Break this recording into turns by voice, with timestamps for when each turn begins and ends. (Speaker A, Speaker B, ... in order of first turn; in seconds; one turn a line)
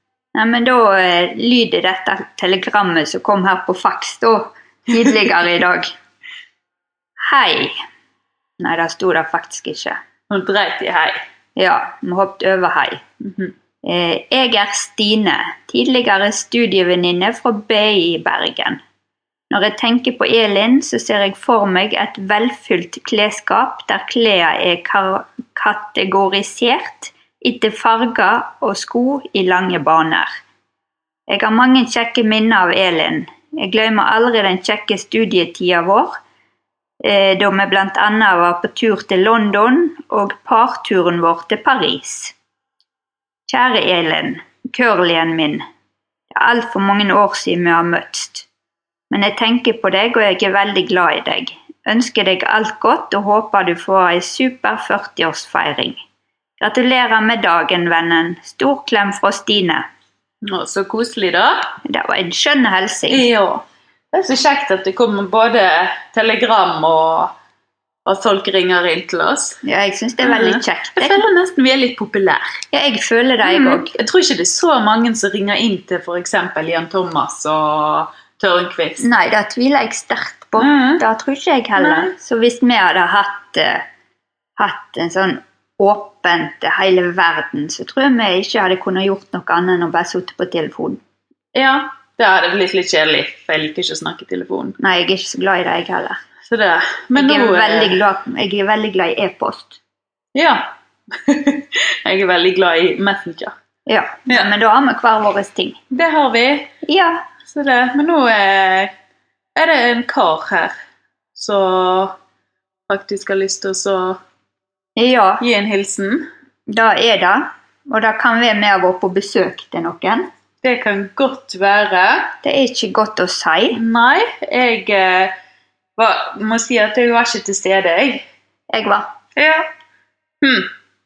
Speaker A: 0.3-5.9
Speaker A: 7.2-7.8
Speaker A: 8.6-10.0
Speaker B: 10.3-11.2
Speaker A: 11.6-13.0
Speaker B: 13.2-13.5
Speaker A: 13.8-18.8
Speaker A: 19.5-30.3
Speaker A: 31.3-36.2
Speaker A: 37.0-42.3
Speaker A: 43.5-45.6
Speaker A: 46.3-48.5
Speaker A: 49.1-56.0
Speaker A: 56.6-59.9
Speaker B: 60.4-61.7
Speaker A: 61.8-63.3
Speaker B: 63.1-67.3
Speaker B: 68.0-69.6
Speaker A: 69.6-71.2
Speaker B: 70.2-72.6
Speaker A: 72.7-73.9
Speaker B: 73.4-79.0
Speaker A: 79.0-83.8
Speaker B: 80.6-81.0
Speaker B: 81.8-82.1
Speaker A: 84.6-91.0
Speaker B: 91.5-94.8
Speaker A: 94.8-96.2
Speaker B: 96.5-98.0
Speaker A: 97.1-99.8
Speaker B: 100.3-103.5
Speaker A: 103.9-105.8
Speaker B: 105.9-106.7
Speaker A: 106.8-107.2
Speaker B: 107.5-108.9
Speaker B: 109.5-110.7
Speaker B: 111.3-112.1
Speaker B: 112.9-114.2
Speaker A: 115.0-115.4
Speaker B: 115.4-116.3
Speaker A: 116.7-120.3
Speaker B: 120.6-122.3
Speaker A: 122.4-123.8
Speaker B: 123.7-125.3
Speaker B: 126.0-128.2
Speaker A: 128.7-129.1
Speaker B: 129.3-129.7
Speaker B: 130.4-130.7